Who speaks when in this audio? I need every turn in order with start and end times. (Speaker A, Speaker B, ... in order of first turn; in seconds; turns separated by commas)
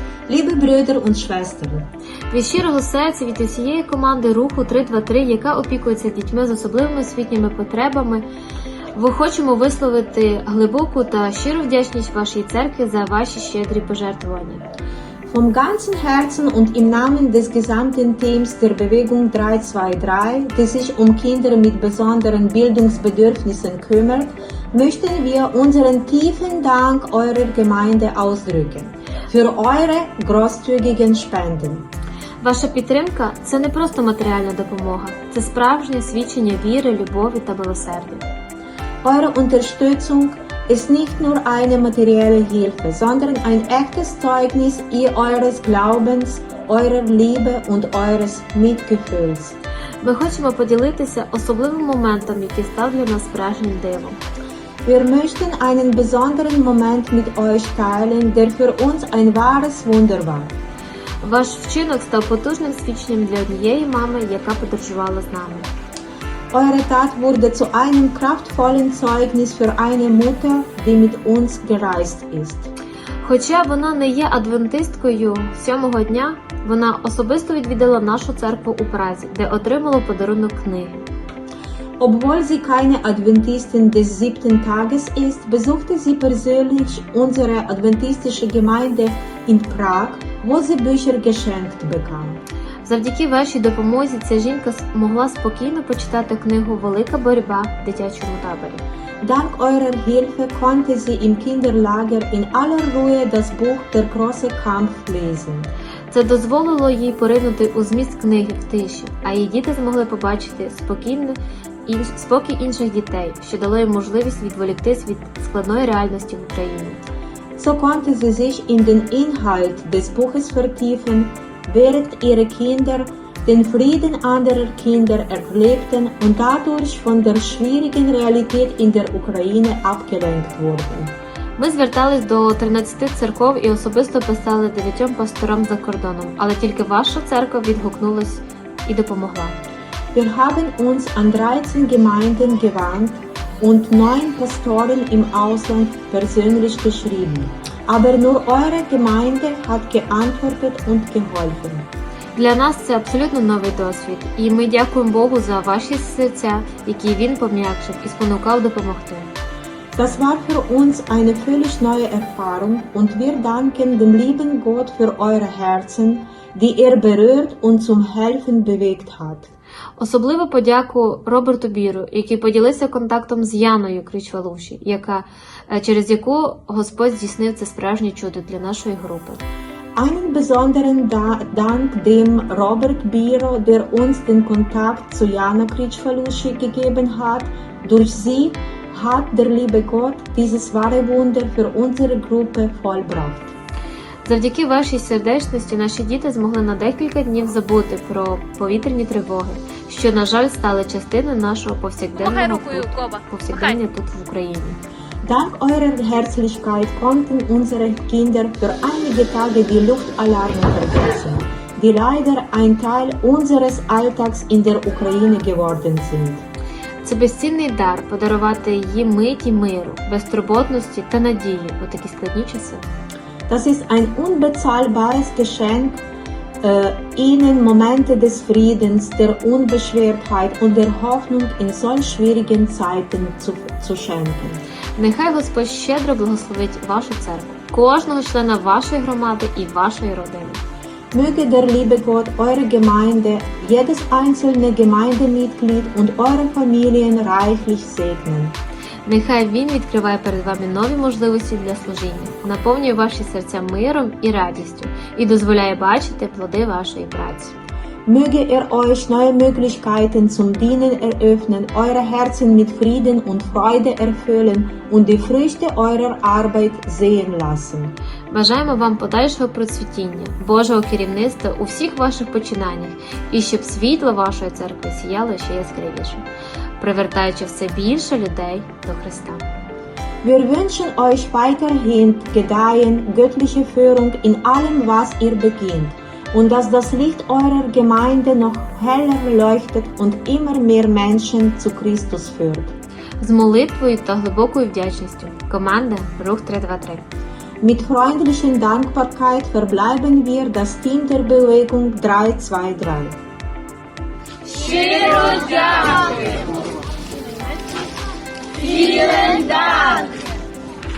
Speaker A: 0.3-1.9, Speaker B: 2.3-8.2, Speaker B: 8.9-14.6, Speaker A: 15.2-31.9, Speaker B: 32.4-38.2, Speaker A: 39.0-49.5, Speaker B: 50.0-54.2, Speaker A: 54.9-60.5, Speaker B: 61.2-65.7, Speaker A: 66.5-72.7, Speaker B: 73.2-81.0, Speaker A: 82.0-92.4, Speaker B: 92.8-98.8, Speaker A: 99.2-105.7, Speaker B: 106.1-117.0, Speaker A: 117.6-131.1, Speaker B: 131.6-139.6, Speaker A: 140.1-151.9, Speaker B: 152.3-159.3, Speaker A: 159.9-169.5, Speaker B: 170.0-179.4, Speaker A: 179.9-193.5, Speaker B: 194.2-204.8, Speaker C: 202.6-203.2, Speaker A: 205.2-216.4, Speaker B: 217.0-222.8, Speaker A: 223.5-226.0, Speaker A: 226.6-234.6, Speaker B: 235.0-240.6, Speaker A: 241.1-248.6, Speaker B: 249.1-257.5, Speaker A: 258.1-267.9, Speaker B: 268.3-276.2, Speaker B: 276.8-279.4, Speaker A: 280.2-292.7, Speaker B: 293.2-297.0, Speaker A: 297.6-303.2, Speaker C: 304.5-306.5, Speaker C: 308.6-310.1